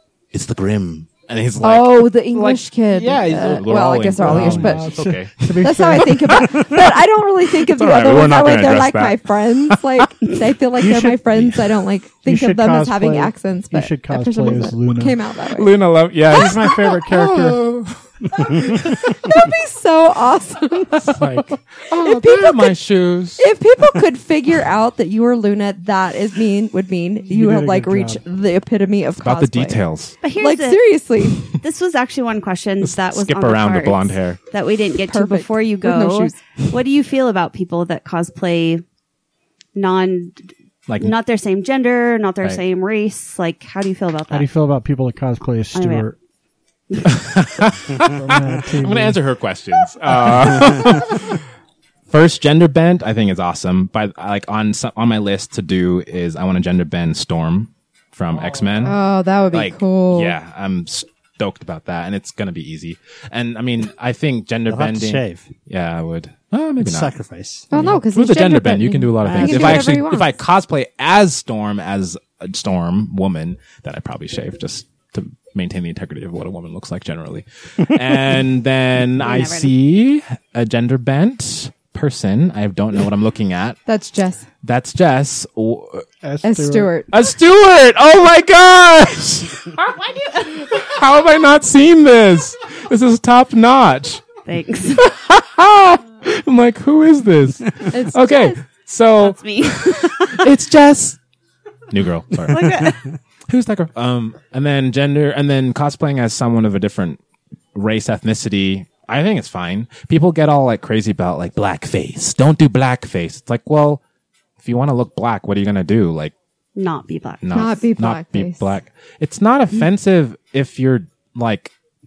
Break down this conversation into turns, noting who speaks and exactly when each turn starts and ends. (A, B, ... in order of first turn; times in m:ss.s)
0:00.3-0:10.3 A
0:01.6-0:05.0 B
0:04.2-0:06.6 C
0:05.6-0:15.8 B
0:10.8-0:11.3 C
0:11.3-0:11.7 A
0:12.2-0:15.2 C
0:15.5-0:19.4 A
0:16.3-0:17.6 C
0:18.7-0:21.4 B
0:21.0-0:23.5 A
0:21.9-0:22.8 B
0:23.4-0:29.8 B
0:27.3-0:28.2 C
0:29.2-0:30.2 A
0:30.2-0:30.8 D
0:30.4-0:31.4 B
0:31.5-0:38.8 D
0:32.8-0:34.4 A
0:35.1-0:36.4 B
0:39.8-0:40.5 D
0:40.9-0:41.1 A
0:41.0-0:44.5 D
0:44.3-0:46.2 C
0:45.7-0:46.1 D
0:47.0-0:51.4 A
0:48.0-0:49.2 C
0:52.1-1:07.1 A
0:58.8-1:00.4 B
1:04.7-1:05.5 E
1:06.8-1:07.8 E
1:07.7-1:10.4 B
1:07.7-1:23.8 A
1:09.2-1:10.0 E
1:19.2-1:19.7 D
1:23.9-1:24.4 B
1:24.6-1:26.0 A
1:26.2-1:27.0 C
1:26.4-1:27.1 B
1:27.1-1:29.8 A
1:29.8-1:30.8 D
1:30.4-1:34.3 A
1:34.5-1:35.0 D
1:34.9-1:41.2 A
1:37.9-1:38.6 B
1:39.2-1:40.5 D
1:41.9-1:47.2 A
1:42.5-1:43.0 D
1:47.8-1:54.0 A
1:54.6-1:56.3 A
1:56.8-1:57.8 D
1:57.4-2:01.7 A
1:57.5-1:58.7 B